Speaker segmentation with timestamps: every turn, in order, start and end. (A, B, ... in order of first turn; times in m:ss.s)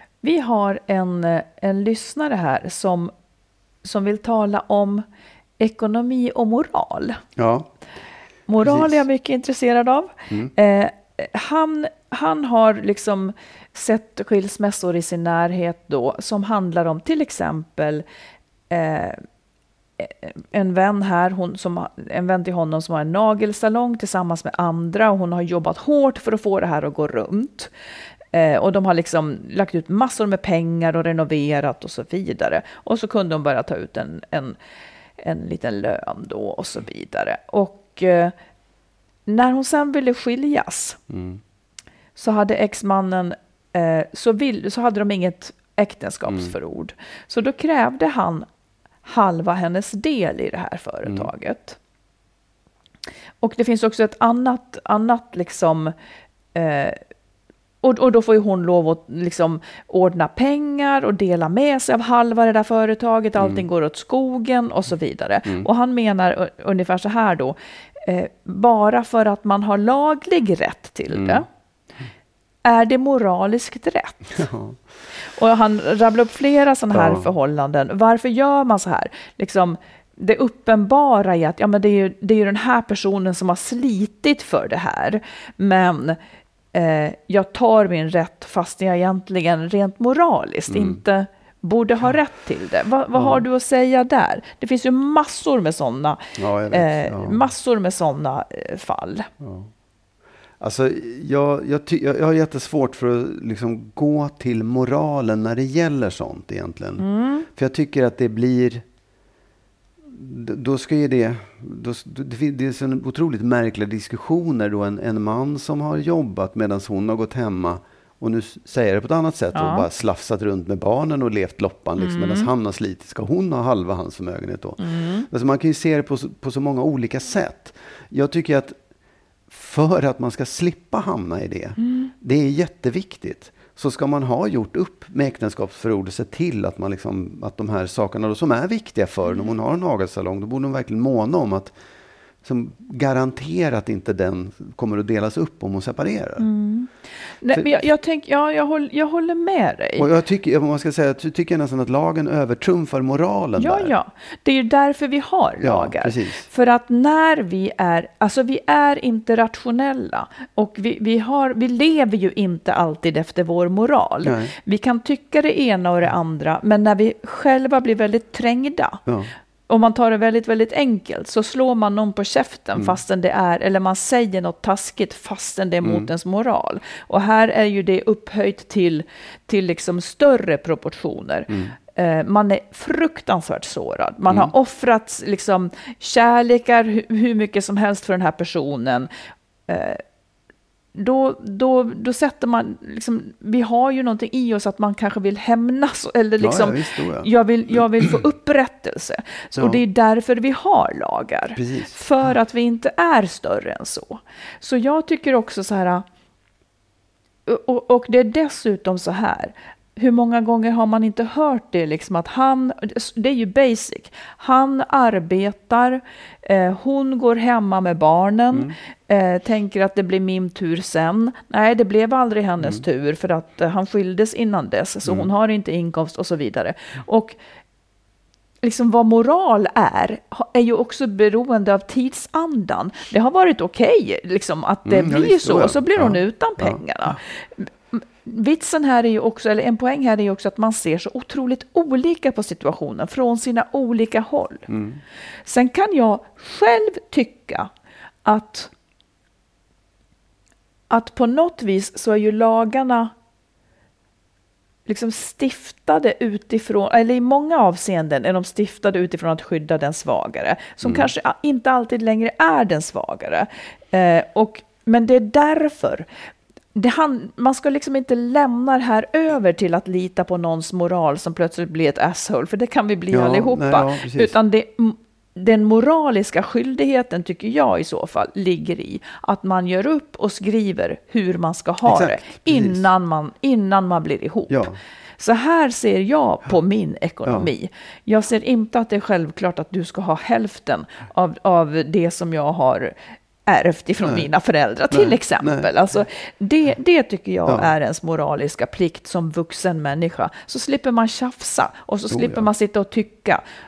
0:00.2-0:03.1 A
0:03.8-0:05.0 A
0:05.6-0:07.2 A
0:07.4-0:07.7 B
0:08.5-0:18.0 A
0:08.6-0:09.0 B
0:18.7-0:19.2 A
0:20.0-0:27.7 A
0:28.3-0:34.6 A
0:35.2-0:38.3 A
0:39.3-0:41.0 A
0:41.1-0:41.4 B
0:42.2-0:48.5 A
0:46.3-0:46.5 B
0:49.0-0:51.8 A
0:53.4-0:55.9 A
0:56.5-0:57.0 A
0:57.8-1:11.5 A
1:03.4-1:03.6 B
1:11.1-1:11.4 B
1:12.6-1:14.5 A
1:14.4-1:14.8 B
1:15.3-1:26.2 A
1:16.9-1:17.2 B
1:26.7-1:39.3 A
1:30.7-1:31.0 B
1:33.2-1:33.4 B
1:36.4-1:37.5 B
1:39.4-1:39.7 B
1:40.6-1:48.8 B
1:47.0-1:47.5 A
1:50.0-2:08.8 B
1:59.5-1:59.9 A
2:02.0-2:02.5 A
2:04.8-2:05.3 A
2:09.5-2:21.8 B
2:11.8-2:12.1 A
2:22.4-2:26.5 B
2:26.4-2:26.9 A
2:27.4-2:30.1 A
2:27.5-2:27.8 B
2:30.0-2:33.9 B
2:33.6-2:49.0 A
2:35.6-2:36.5 B
2:44.2-2:44.5 B
2:49.7-3:09.1 A
2:55.8-2:56.1 B
3:01.5-3:01.8 B
3:09.7-3:10.0 A
3:11.0-3:26.0 A
3:16.4-3:17.3 B
3:19.6-3:19.8 B
3:21.6-3:22.0 B
3:27.5-3:47.4 A
3:45.0-3:45.3 B
3:48.6-4:04.7 A
3:54.8-3:57.2 B
4:04.7-4:05.0 B
4:05.5-4:07.7 A
4:08.2-4:08.7 A
4:10.9-4:13.1 A
4:14.9-4:26.1 A
4:20.8-4:21.1 B
4:26.8-4:44.7 A
4:33.1-4:34.4 B
4:41.8-4:42.9 B
4:44.5-4:44.8 B
4:45.2-4:53.0 A
4:53.5-5:03.4 A
4:54.9-4:55.7 B
5:02.1-5:02.5 B